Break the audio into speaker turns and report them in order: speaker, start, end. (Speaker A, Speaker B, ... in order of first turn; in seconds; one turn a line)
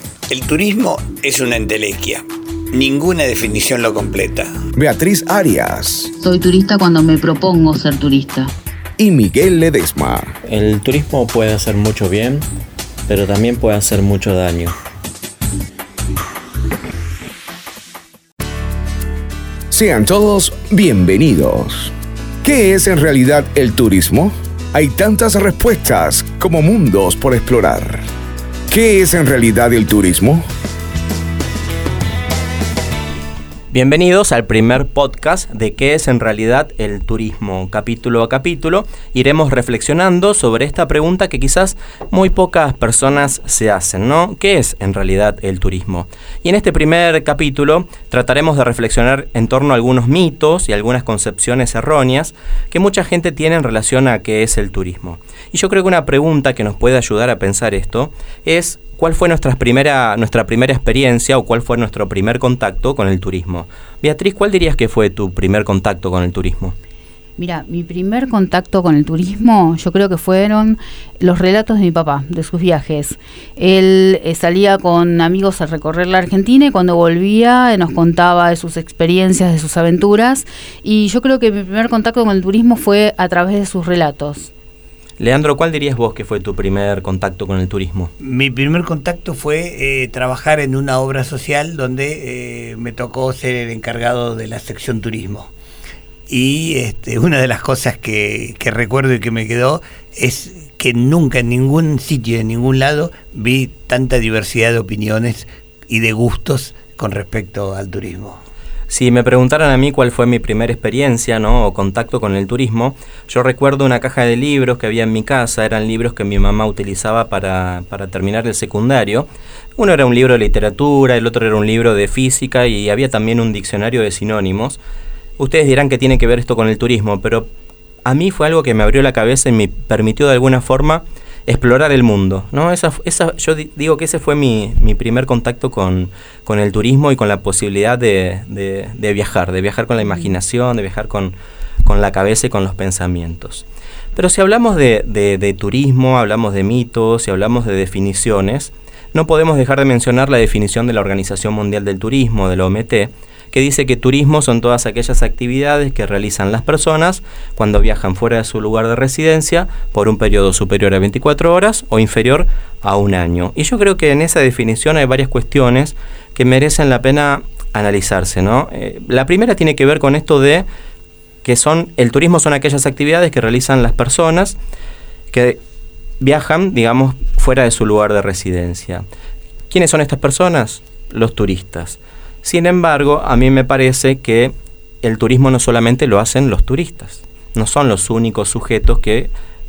Speaker A: 0.3-4.5
Speaker B: 4.7-6.1
Speaker C: 6.2-8.5
Speaker B: 9.0-10.3
Speaker D: 10.4-12.4
Speaker D: 13.1-14.8
Speaker B: 19.7-28.0
Speaker B: 28.7-30.4
Speaker D: 33.7-66.7
Speaker C: 67.4-84.5
Speaker D: 85.2-88.1
Speaker A: 88.2-95.5
Speaker A: 96.3-108.4
Speaker D: 108.9-124.8
Speaker D: 125.4-127.5
Speaker D: 128.0-170.7
Speaker D: 171.4-174.6
Speaker D: 175.3-175.6
Speaker D: 176.2-179.0
Speaker D: 179.7-189.3